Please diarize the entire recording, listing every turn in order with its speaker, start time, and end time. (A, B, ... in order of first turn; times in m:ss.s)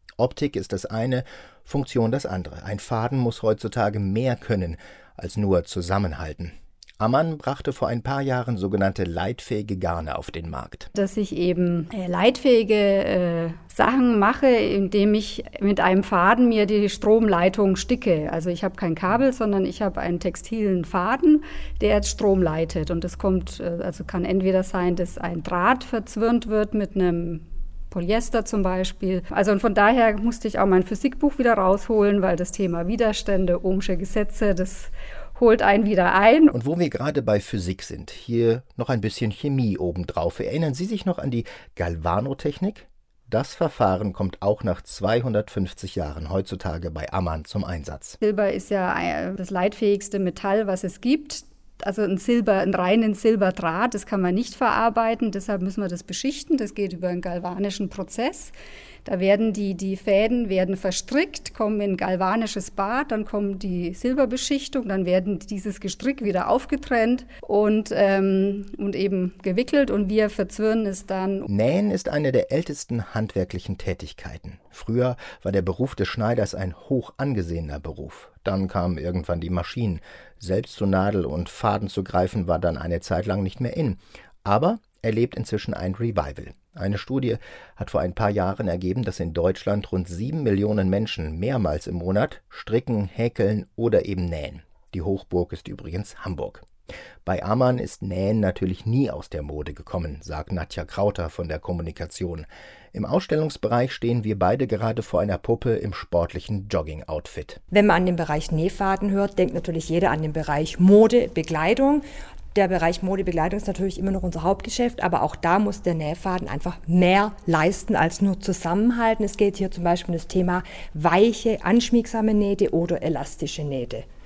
0:00.2-0:10.9 A
0:11.0-0:36.5 B
0:36.5-0:48.2 A
0:48.2-0:58.5 B
0:59.0-1:11.5 B
1:11.5-1:36.7 A
1:37.3-1:47.6 A
1:47.7-2:04.0 C